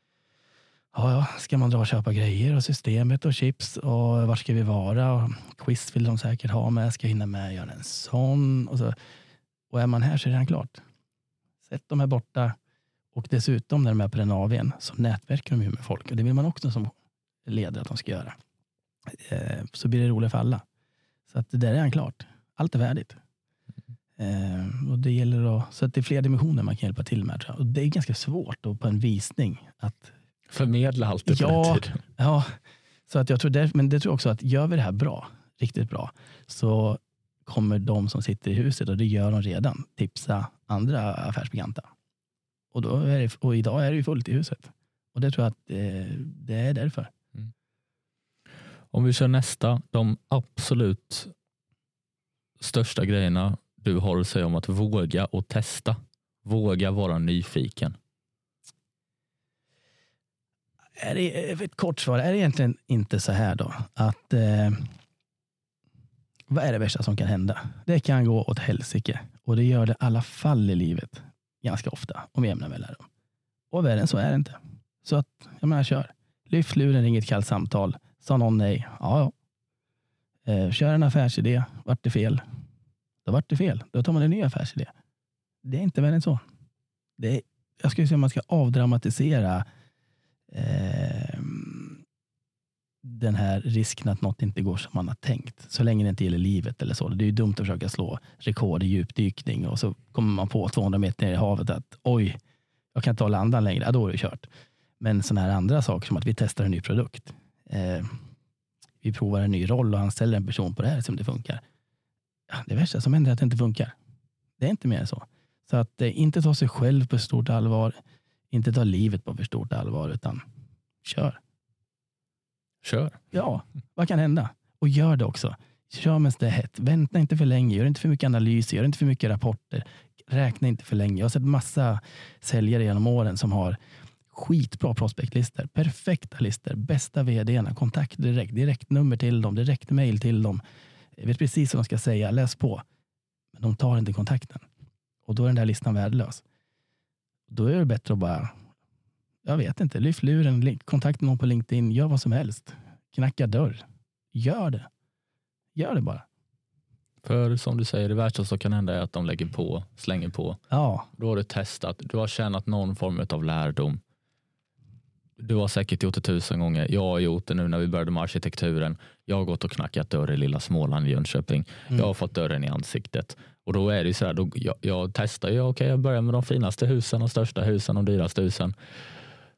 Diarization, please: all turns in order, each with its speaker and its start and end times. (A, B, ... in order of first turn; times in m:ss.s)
0:00.9-0:08.9 A
0:09.7-0:10.8 A
0:11.6-0:12.5 A
0:13.1-0:16.9 A
0:17.4-0:18.3 A
0:19.1-0:20.6 A
0:21.3-0:23.2 A
0:24.2-0:30.1 A
0:30.5-0:32.0 B
0:31.3-0:32.6 A
0:33.1-0:41.9 A
0:42.7-0:47.1 A
0:48.9-0:51.3 B
0:52.6-0:57.9 B
1:01.0-1:04.9 A
1:06.5-1:13.0 A
1:13.7-1:19.3 A
1:20.4-1:22.4 A
1:23.2-1:24.9 A
1:25.6-1:26.4 A
1:27.2-1:29.6 A
1:30.5-1:32.0 A
1:33.0-1:42.4 A
1:42.9-1:44.5 A
1:45.0-1:48.1 A
1:49.0-1:51.6 A
1:52.5-1:54.0 A
1:54.6-1:58.0 A
1:58.5-2:00.4 A
2:01.0-2:01.4 A
2:02.8-2:03.2 B
2:03.3-2:13.8 A
2:14.3-2:20.6 A
2:21.2-2:22.8 A
2:23.5-2:24.6 A
2:25.2-2:26.4 A
2:27.5-2:28.5 A
2:29.4-2:34.9 A
2:35.7-2:36.2 A
2:37.2-2:40.6 B
2:40.7-2:41.1 A
2:41.2-2:44.0 B
2:45.4-2:58.7 B